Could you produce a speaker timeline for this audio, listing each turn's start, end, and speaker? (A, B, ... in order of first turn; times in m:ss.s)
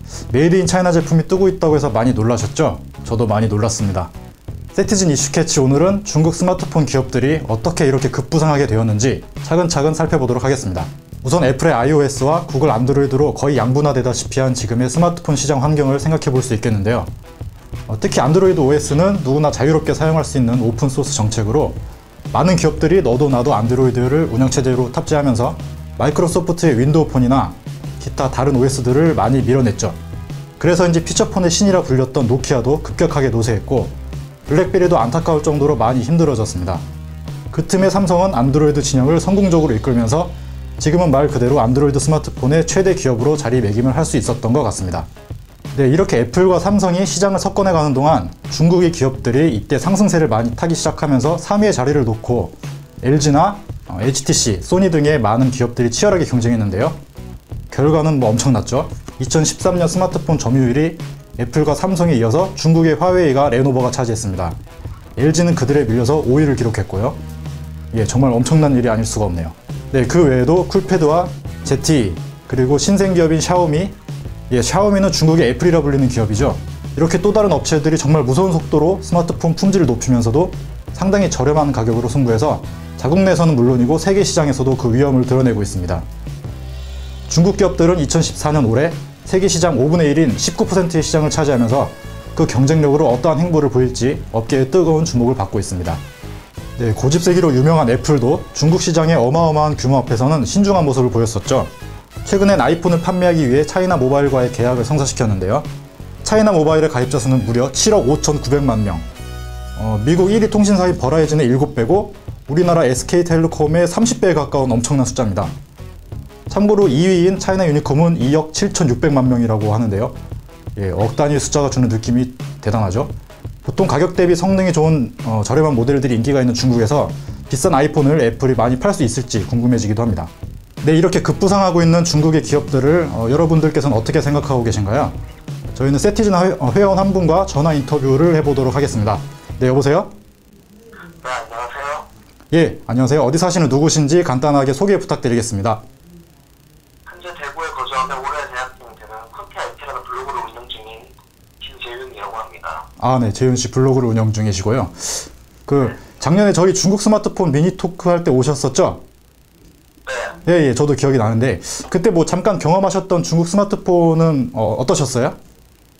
0:00.3-0:04.1 A
0:04.7-0:17.1 A
0:17.9-0:21.8 A
0:22.3-0:30.0 A
0:30.6-0:34.0 A
0:34.5-0:36.8 A
0:37.5-0:45.1 A
0:45.7-0:57.0 A
0:57.7-1:04.6 A
1:05.2-1:07.2 A
1:07.9-1:13.9 A
1:14.5-1:26.0 A
1:27.3-1:36.0 A
1:36.8-1:41.7 A
1:42.2-1:45.7 A
1:46.2-1:49.0 A
1:49.8-1:55.5 A
1:56.5-2:00.2 A
2:00.8-2:03.1 A
2:03.6-2:15.2 A
2:15.8-2:20.1 A
2:21.2-2:22.1 B
2:22.5-2:25.8 A
2:27.1-2:32.9 B
2:33.0-2:39.0 A
2:40.1-2:40.4 B
2:40.4-2:45.4 A